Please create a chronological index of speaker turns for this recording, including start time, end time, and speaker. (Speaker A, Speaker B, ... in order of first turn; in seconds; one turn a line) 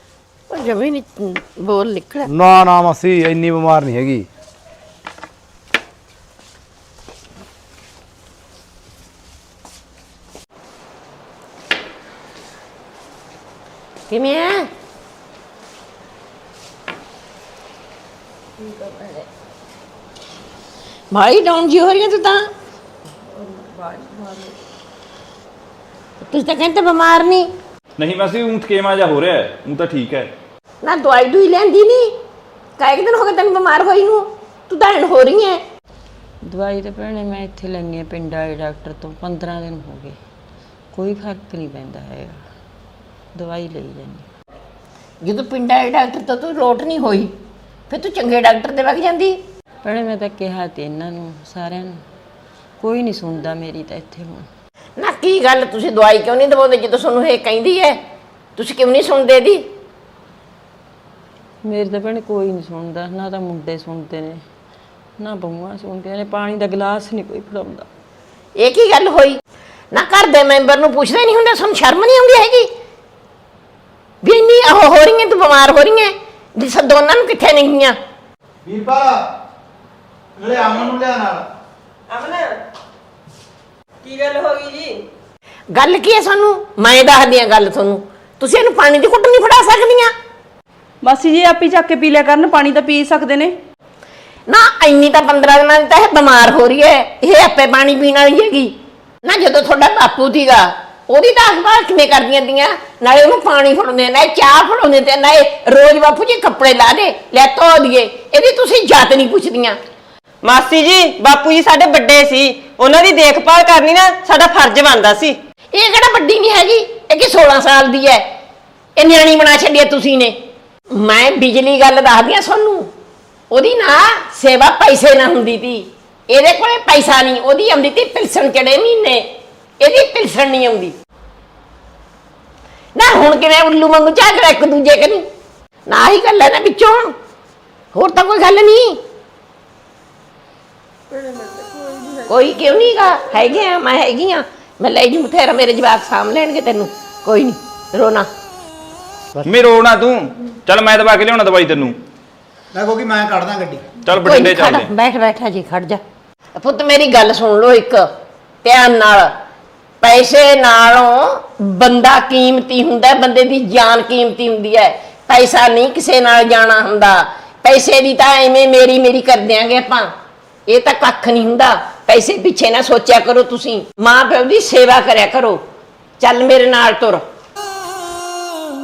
Speaker A: 0.5-2.3
Speaker B: 2.2-4.2
Speaker A: 14.1-14.7
Speaker C: 18.6-19.2
Speaker A: 21.1-22.5
Speaker C: 23.3-24.5
Speaker A: 26.2-27.5
Speaker D: 28.0-30.3
Speaker A: 30.8-32.1
Speaker A: 32.8-35.6
Speaker C: 36.4-40.2
Speaker C: 40.9-42.4
Speaker C: 43.3-44.2
Speaker A: 45.2-47.3
Speaker A: 47.9-49.4
Speaker C: 49.8-52.0
Speaker C: 52.8-54.5
Speaker A: 55.0-58.0
Speaker A: 58.6-59.7
Speaker C: 61.6-64.4
Speaker C: 65.2-67.9
Speaker A: 68.5-69.4
Speaker A: 69.9-72.7
Speaker A: 74.2-78.0
Speaker B: 78.6-79.2
Speaker B: 80.4-81.4
Speaker E: 82.1-82.5
Speaker E: 84.0-85.0
Speaker A: 85.7-90.1
Speaker F: 91.0-93.5
Speaker A: 94.5-109.8
Speaker E: 110.4-115.3
Speaker A: 115.7-118.2
Speaker A: 119.0-120.4
Speaker A: 120.9-122.9
Speaker A: 123.5-129.2
Speaker A: 129.8-130.9
Speaker A: 132.9-135.2
Speaker A: 135.9-137.1
Speaker A: 137.9-139.0
Speaker C: 141.1-143.4
Speaker A: 142.3-148.3
Speaker D: 149.4-152.0
Speaker B: 152.7-153.9
Speaker D: 154.1-154.9
Speaker A: 154.1-156.0
Speaker A: 156.5-158.1
Speaker A: 158.6-159.3
Speaker A: 160.0-170.1
Speaker A: 170.7-175.6
Speaker A: 176.2-177.2